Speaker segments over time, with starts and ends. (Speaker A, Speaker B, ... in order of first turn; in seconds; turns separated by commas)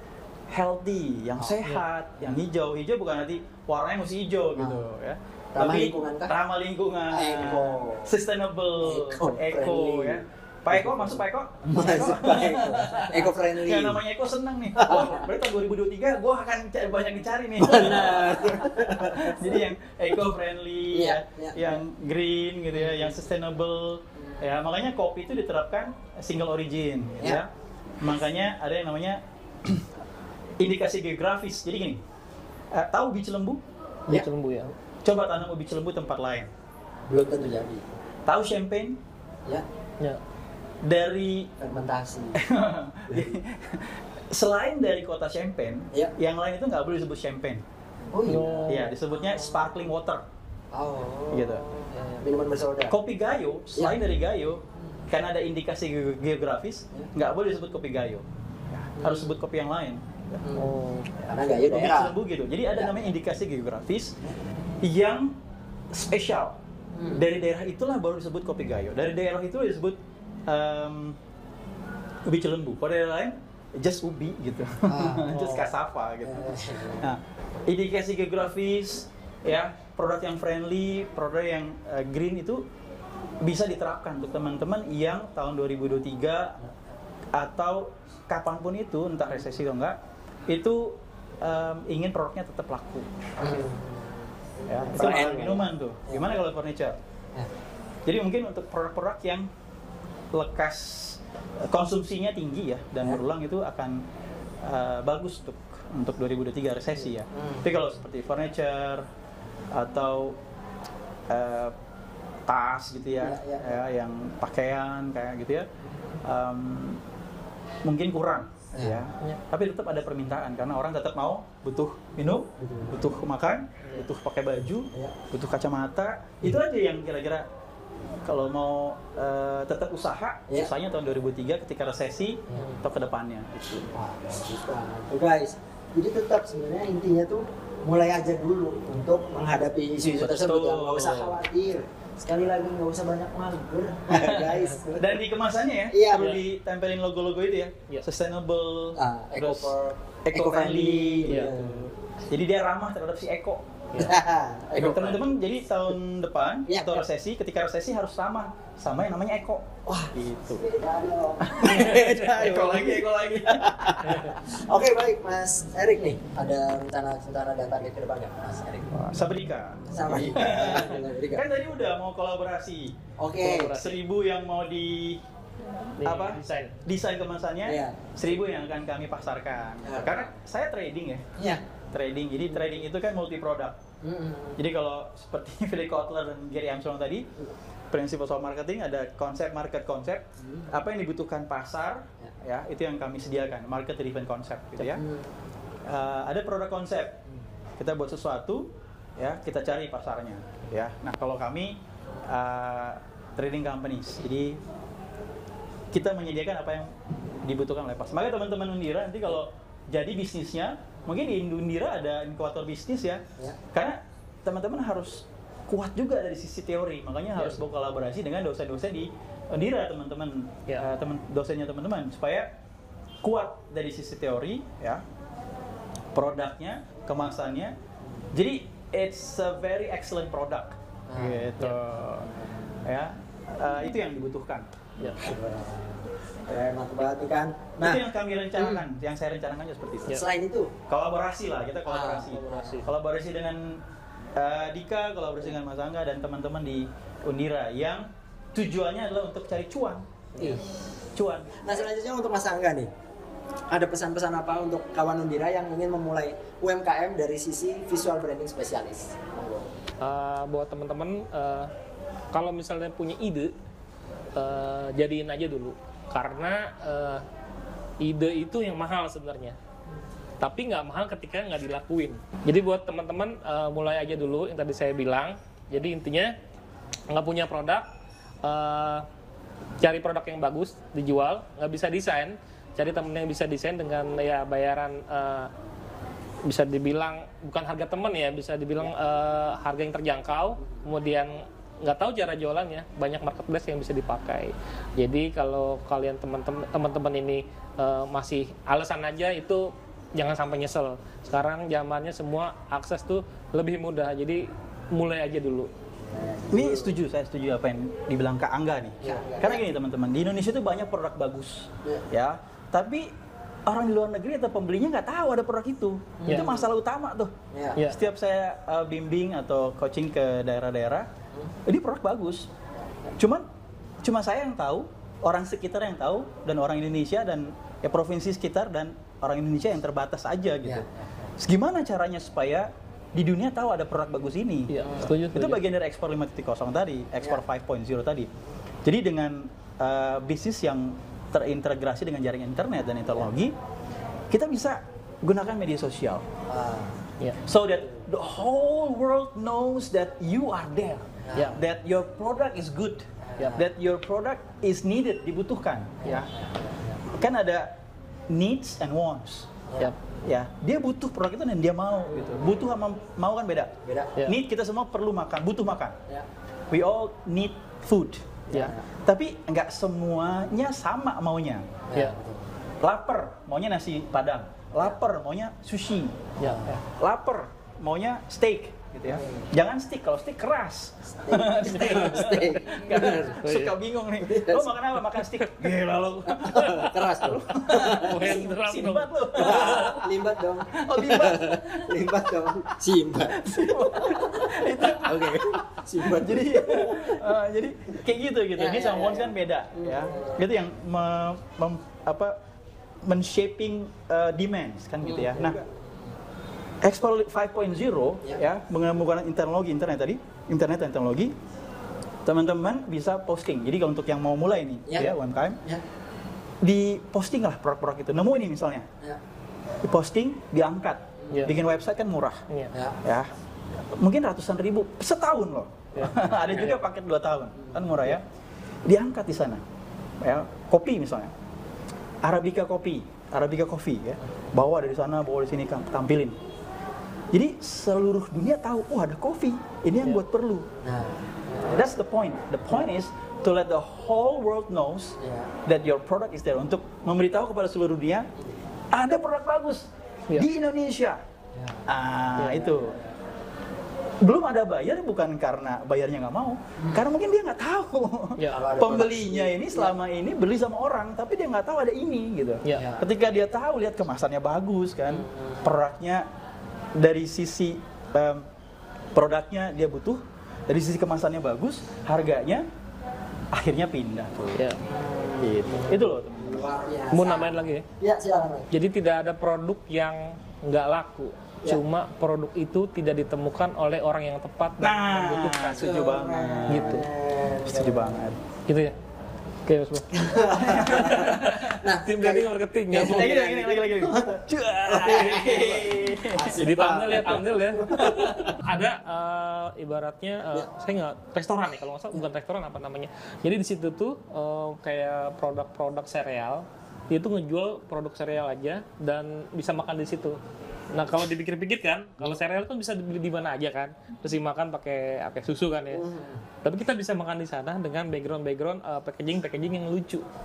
Speaker A: 0.5-27.5, Speaker B: 4.6-4.9, Speaker B: 5.5-6.3, Speaker B: 7.1-8.1, Speaker B: 8.8-14.0, Speaker B: 14.8-15.2, Speaker B: 17.6-19.6, Speaker B: 20.9-21.8, Speaker A: 28.0-29.9, Speaker A: 30.6-32.0, Speaker A: 32.7-33.6, Speaker C: 34.1-34.7, Speaker A: 35.0-36.5, Speaker B: 37.1-38.0, Speaker A: 38.3-39.0, Speaker A: 40.8-41.5, Speaker B: 41.6-42.4, Speaker A: 42.3-47.6, Speaker B: 43.1-43.3, Speaker B: 48.1-49.6, Speaker C: 48.3-48.8, Speaker A: 48.6-50.2, Speaker B: 50.7-52.9, Speaker A: 51.3-51.6, Speaker A: 52.9-60.4, Speaker B: 59.0-59.2, Speaker B: 60.4-62.1, Speaker C: 60.5-61.1, Speaker A: 61.4-64.2, Speaker B: 62.7-63.1, Speaker A: 64.8-65.3, Speaker A: 65.9-66.6, Speaker B: 66.9-67.2, Speaker A: 67.1-71.2, Speaker A: 72.3-82.6, Speaker B: 74.8-75.6, Speaker B: 76.2-77.1, Speaker A: 83.4-86.6, Speaker A: 87.3-93.1, Speaker B: 93.4-96.3, Speaker A: 94.7-97.0, Speaker A: 98.0-99.5, Speaker A: 100.3-104.0, Speaker A: 104.6-109.0, Speaker B: 107.3-107.7, Speaker A: 109.7-110.4, Speaker A: 111.3-111.7, Speaker A: 112.5-115.7, Speaker B: 113.2-113.8, Speaker A: 116.2-117.0, Speaker A: 117.8-127.5, Speaker B: 118.7-119.4, Speaker B: 122.6-123.0, Speaker A: 128.2-133.9, Speaker B: 132.5-132.7, Speaker B: 133.9-145.1, Speaker A: 140.2-141.4, Speaker A: 144.1-149.7, Speaker B: 145.9-146.3, Speaker B: 148.9-151.8, Speaker A: 150.3-153.8, Speaker B: 154.0-155.2, Speaker A: 154.7-160.6, Speaker B: 156.7-157.0, Speaker B: 159.9-168.9, Speaker A: 161.4-164.3, Speaker A: 168.9-175.2, Speaker B: 169.9-171.4, Speaker B: 173.2-173.8, Speaker C: 173.4-173.9, Speaker C: 176.0-176.8, Speaker A: 176.0-181.3, Speaker B: 177.6-178.0, Speaker B: 179.8-180.3, Speaker B: 181.4-181.6, Speaker A: 181.9-183.8, Speaker B: 184.0-184.6, Speaker A: 184.6-187.3, Speaker A: 187.9-195.0, Speaker B: 190.4-190.7, Speaker B: 194.8-195.3, Speaker A: 195.8-197.2, Speaker A: 197.8-204.6, Speaker A: 205.9-222.5, Speaker A: 223.2-225.0, Speaker A: 226.1-227.7, Speaker A: 228.3-232.3, Speaker B: 231.1-231.5, Speaker B: 232.2-232.6, Speaker A: 232.8-234.7, Speaker B: 235.0-238.1, Speaker A: 237.8-240.2, Speaker B: 238.6-238.8, Speaker B: 240.1-240.7, Speaker A: 240.9-243.8, Speaker B: 241.9-242.8, Speaker C: 242.2-242.9, Speaker A: 244.3-250.1, Speaker B: 250.4-250.6, Speaker A: 251.1-251.9, Speaker B: 251.6-252.9, Speaker B: 253.7-259.7, Speaker C: 260.0-261.7, Speaker C: 262.3-263.5, Speaker C: 264.3-267.2, Speaker C: 268.0-269.6, Speaker C: 270.4-276.4, Speaker C: 277.1-277.9, Speaker C: 278.4-279.1, Speaker C: 279.8-285.5, Speaker C: 286.4-305.7, Speaker B: 306.1-306.9, Speaker A: 306.5-313.1, Speaker B: 309.0-309.6, Speaker A: 313.6-321.1, Speaker B: 316.2-316.7, Speaker C: 316.3-316.6, Speaker B: 317.5-317.8, Speaker A: 321.6-322.5, Speaker B: 322.9-323.1, Speaker A: 323.2-323.4, Speaker A: 324.0-338.3, Speaker B: 330.6-331.3, Speaker C: 334.7-335.6, Speaker B: 334.8-335.1, Speaker A: 338.8-343.6, Speaker A: 344.3-346.2, Speaker B: 346.5-347.0, Speaker A: 347.4-356.3, Speaker B: 351.2-351.6, Speaker B: 353.2-353.6, Speaker B: 356.0-357.0, Speaker A: 357.1-357.8, Speaker A: 358.3-359.5, Speaker A: 360.2-365.9, Speaker B: 363.8-364.1, Speaker A: 366.7-368.4, Speaker B: 368.5-368.9, Speaker A: 369.1-371.7, Speaker B: 371.9-372.5, Speaker A: 372.8-392.1, Speaker C: 376.4-376.7, Speaker B: 376.4-376.8, Speaker B: 379.1-379.5, Speaker B: 381.1-383.5, Speaker C: 381.8-382.2, Speaker C: 383.4-383.8, Speaker B: 384.2-384.7, Speaker C: 385.2-385.7, Speaker C: 386.4-387.0, Speaker B: 386.4-388.4, Speaker C: 387.7-389.9, Speaker B: 389.3-397.2, Speaker A: 393.3-402.4, Speaker B: 398.6-400.4, Speaker A: 403.0-405.6, Speaker B: 405.1-405.8, Speaker A: 406.8-411.4, Speaker A: 412.2-415.6, Speaker B: 414.9-415.1, Speaker A: 416.6-418.9, Speaker A: 419.8-422.4, Speaker B: 421.2-421.5, Speaker B: 422.7-423.0, Speaker A: 423.0-428.2, Speaker C: 425.9-426.8, Speaker A: 428.9-429.6, Speaker A: 430.2-431.3, Speaker A: 432.2-436.4, Speaker A: 437.3-440.7, Speaker B: 440.8-441.9, Speaker A: 441.6-448.3, Speaker B: 445.2-445.5, Speaker A: 448.9-451.2, Speaker B: 451.6-453.1, Speaker A: 451.9-453.0, Speaker C: 452.4-452.7, Speaker A: 454.2-466.3, Speaker B: 456.8-457.1, Speaker C: 458.4-458.7, Speaker B: 458.5-459.9, Speaker C: 462.6-462.9, Speaker B: 462.7-463.1, Speaker B: 465.1-465.6, Speaker A: 467.0-468.4, Speaker A: 469.1-472.6, Speaker A: 473.5-474.7, Speaker C: 474.6-474.8, Speaker B: 474.8-478.7, Speaker A: 475.4-476.8, Speaker C: 477.1-477.9, Speaker C: 478.7-486.1, Speaker A: 484.8-487.1, Speaker B: 485.7-488.3, Speaker C: 486.7-487.1, Speaker A: 487.6-488.4, Speaker C: 488.7-488.9, Speaker C: 489.6-493.3, Speaker B: 490.1-496.9, Speaker A: 490.5-491.7, Speaker A: 492.9-498.6, Speaker C: 496.5-510.4, Speaker C: 510.9-516.1, Speaker B: 515.9-516.4, Speaker C: 516.6-520.3